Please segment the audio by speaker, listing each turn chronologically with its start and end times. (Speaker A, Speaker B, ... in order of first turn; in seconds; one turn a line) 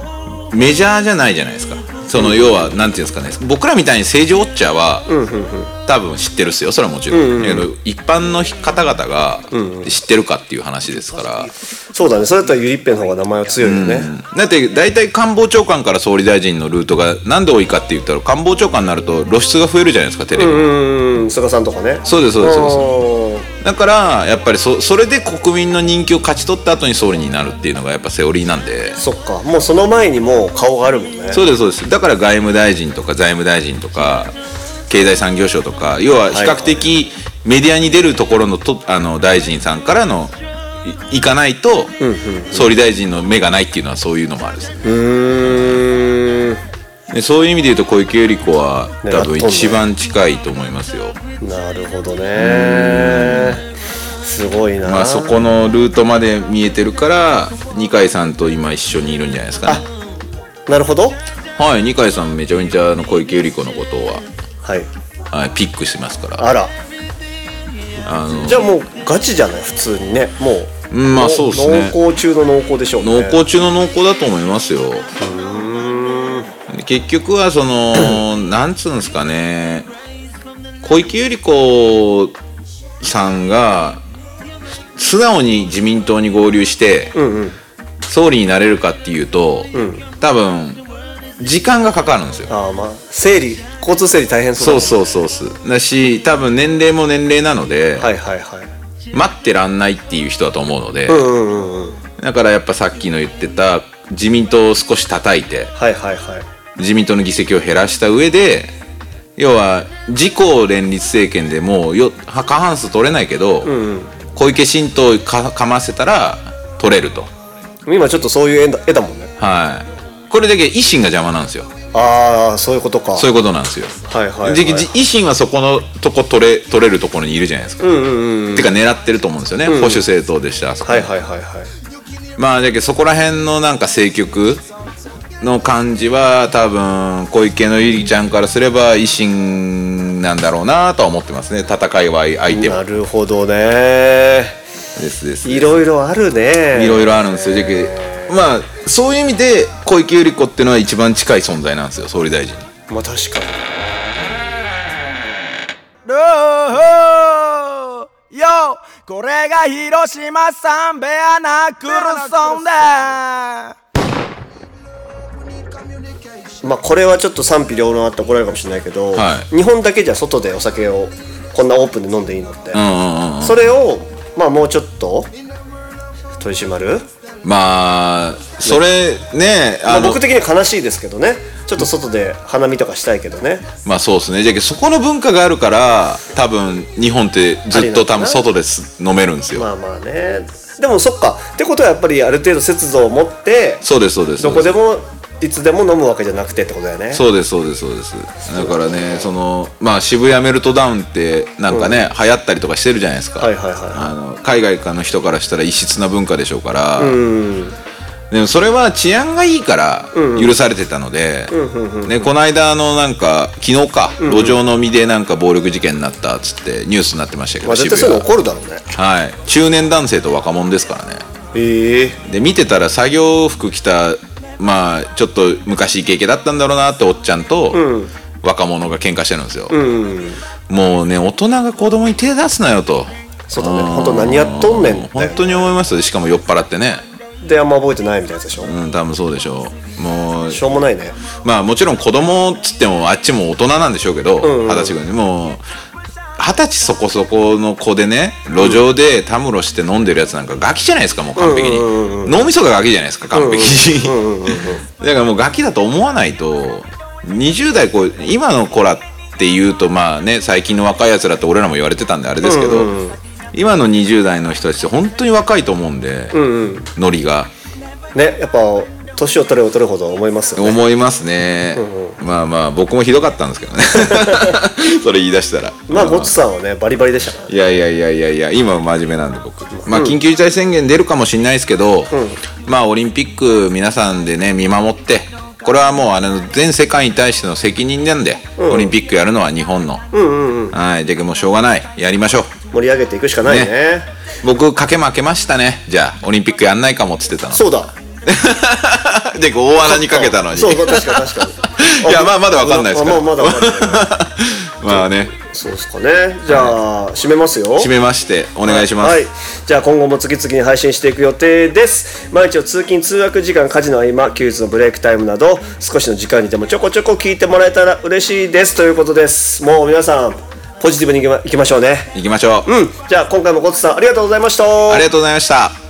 Speaker A: 0.5-5.1
Speaker B: 2.1-2.7
Speaker B: 5.1-5.8
Speaker A: 5.9-11.5
Speaker B: 7.1-7.7
Speaker B: 9.5-9.9
Speaker B: 11.9-14.1
Speaker A: 13.6-20.7
Speaker B: 20.3-23.5
Speaker A: 22.1-23.0
Speaker A: 23.6-29.0
Speaker B: 29.0-31.4
Speaker A: 31.3-34.3
Speaker A: 34.9-42.0
Speaker B: 36.3-36.9
Speaker B: 42.0-42.7
Speaker A: 42.5-44.8
Speaker B: 44.8-46.6
Speaker A: 45.5-45.8
Speaker A: 47.1-51.2
Speaker B: 49.0-49.9
Speaker B: 51.4-53.6
Speaker A: 52.4-53.6
Speaker B: 54.2-55.4
Speaker A: 54.8-59.9
Speaker B: 60.7-61.2
Speaker A: 61.6-64.2
Speaker B: 64.6-64.9
Speaker A: 65.3-66.4
Speaker B: 66.4-66.7
Speaker A: 68.0-68.7
Speaker B: 68.4-73.4
Speaker A: 70.9-72.0
Speaker A: 73.0-75.1
Speaker B: 75.2-76.5
Speaker A: 76.7-79.9
Speaker A: 80.8-82.3
Speaker A: 83.0-84.0
Speaker A: 85.0-87.1
Speaker B: 87.2-87.6
Speaker A: 88.1-90.8
Speaker B: 89.7-90.1
Speaker A: 91.4-92.5
Speaker B: 92.5-95.0
Speaker A: 94.6-98.1
Speaker B: 98.0-98.7
Speaker A: 99.1-101.3
Speaker B: 101.1-102.0
Speaker A: 102.2-105.7
Speaker B: 105.8-106.5
Speaker A: 106.8-108.7
Speaker A: 109.4-113.7
Speaker B: 113.7-114.1
Speaker A: 114.3-117.3
Speaker B: 117.9-119.3
Speaker A: 119.4-121.7
Speaker B: 121.9-123.3
Speaker A: 123.2-128.0
Speaker B: 124.1-124.9
Speaker B: 127.8-128.7
Speaker A: 128.5-131.1
Speaker B: 129.7-130.0
Speaker B: 130.8-131.7
Speaker A: 132.4-134.7
Speaker A: 135.4-142.8
Speaker B: 142.5-144.6
Speaker A: 145.0-145.8
Speaker B: 145.4-148.3
Speaker A: 146.7-152.7
Speaker B: 152.9-153.9
Speaker C: 156.1-163.7
Speaker B: 166.6-172.8
Speaker A: 169.1-169.5
Speaker A: 172.7-173.6
Speaker B: 173.4-175.3
Speaker B: 176.4-177.1
Speaker A: 177.4-180.2
Speaker B: 179.9-183.7
Speaker A: 183.8-189.7
Speaker B: 187.7-188.4
Speaker B: 189.5-193.8
Speaker A: 193.8-194.8
Speaker B: 194.4-197.2
Speaker A: 197.1-207.2
Speaker B: 198.5-199.1
Speaker B: 201.7-202.1
Speaker B: 203.4-204.1
Speaker B: 207.0-207.8
Speaker A: 208.3-211.5
Speaker B: 210.1-210.5
Speaker B: 211.5-212.3
Speaker A: 212.1-218.2
Speaker B: 214.2-214.6
Speaker B: 217.6-218.8
Speaker A: 218.9-221.2
Speaker B: 221.5-222.2
Speaker A: 222.2-227.8
Speaker B: 227.7-228.1
Speaker A: 228.4-229.8
Speaker B: 229.7-230.4
Speaker A: 230.7-237.0
Speaker B: 233.5-235.7
Speaker B: 237.4-238.7
Speaker A: 238.6-240.8
Speaker B: 240.5-241.2
Speaker A: 241.4-245.6
Speaker B: 244.4-245.0
Speaker A: 246.4-262.9
Speaker B: 251.4-252.4
Speaker B: 253.3-254.8
Speaker B: 262.4-263.2
Speaker A: 263.5-266.4
Speaker B: 266.3-266.9
Speaker A: 266.9-267.5
Speaker B: 268.1-270.8
Speaker A: 270.6-276.4
Speaker B: 271.8-272.2
Speaker B: 273.9-274.6
Speaker B: 275.9-277.6
Speaker A: 277.5-282.1
Speaker B: 279.8-280.2
Speaker B: 282.1-282.4
Speaker A: 282.6-290.1
Speaker B: 288.6-288.9
Speaker B: 290.1-290.8
Speaker A: 290.7-292.5
Speaker B: 292.7-294.1
Speaker A: 293.4-293.7
Speaker A: 294.4-297.6
Speaker B: 297.5-297.9
Speaker A: 298.3-305.3
Speaker B: 299.8-304.1
Speaker B: 304.9-307.9
Speaker A: 306.5-306.8
Speaker A: 307.8-309.2
Speaker B: 308.7-322.1
Speaker A: 322.1-322.7
Speaker B: 322.6-325.1
Speaker A: 324.9-325.8